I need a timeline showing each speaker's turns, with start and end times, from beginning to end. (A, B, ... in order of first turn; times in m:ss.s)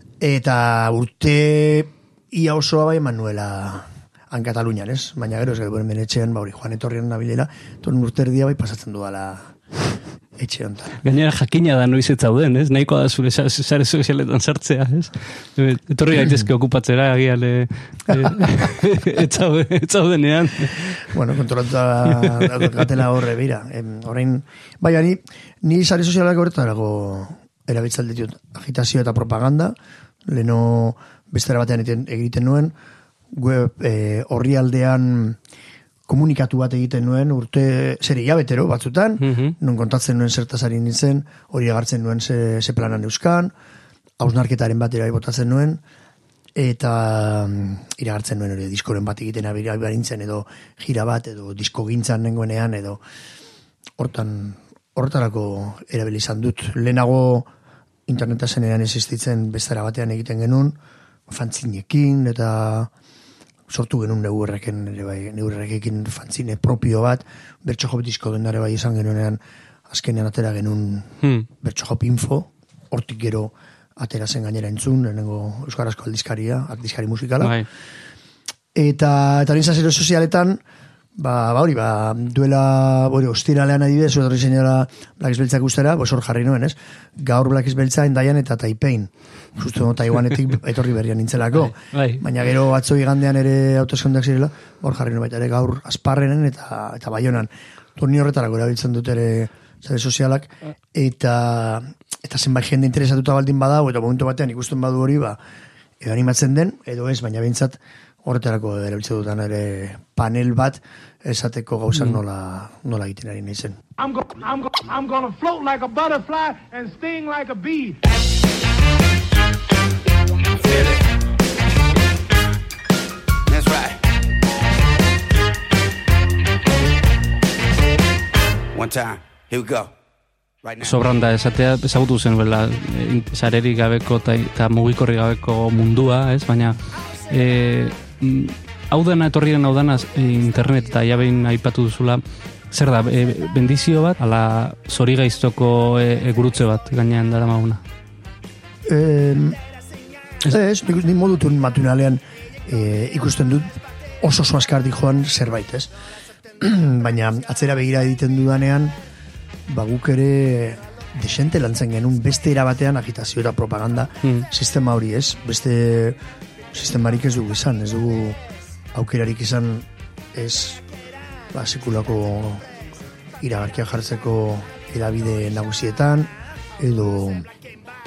0:00.2-0:09.5 A
0:10.4-0:11.0 A
0:11.0-0:21.0 B
0:21.1-0:29.7 A
0:22.1-0:22.9 B
0:30.3-0:32.7 A
0:33.3-0:35.4 A
0:36.1-0:43.5 A
0:39.2-0:39.5 B
0:44.2-0:45.8 A
0:46.6-0:53.0 A
0:54.0-0:57.5 A
0:58.1-1:00.7 A
1:01.3-1:02.9 A
1:03.7-1:17.5 A
1:11.2-1:11.5 B
1:17.4-1:17.6 B
1:18.7-1:20.6 A
1:21.2-1:45.4 A
1:31.6-1:32.2 B
1:46.0-1:53.8 A
1:54.0-1:58.0 C
2:03.5-2:04.0 D
2:08.7-2:09.9 D
2:10.6-2:11.0 D
2:10.8-2:16.8 B
2:17.3-2:27.8 B
2:28.9-2:29.6 A
2:30.4-2:33.7 A
2:34.2-2:35.9 A
2:36.6-2:38.9 A
2:39.7-2:46.2 A
2:46.7-2:48.4 A
2:48.9-2:50.8 A
2:51.5-2:52.6 A
2:53.4-2:57.5 A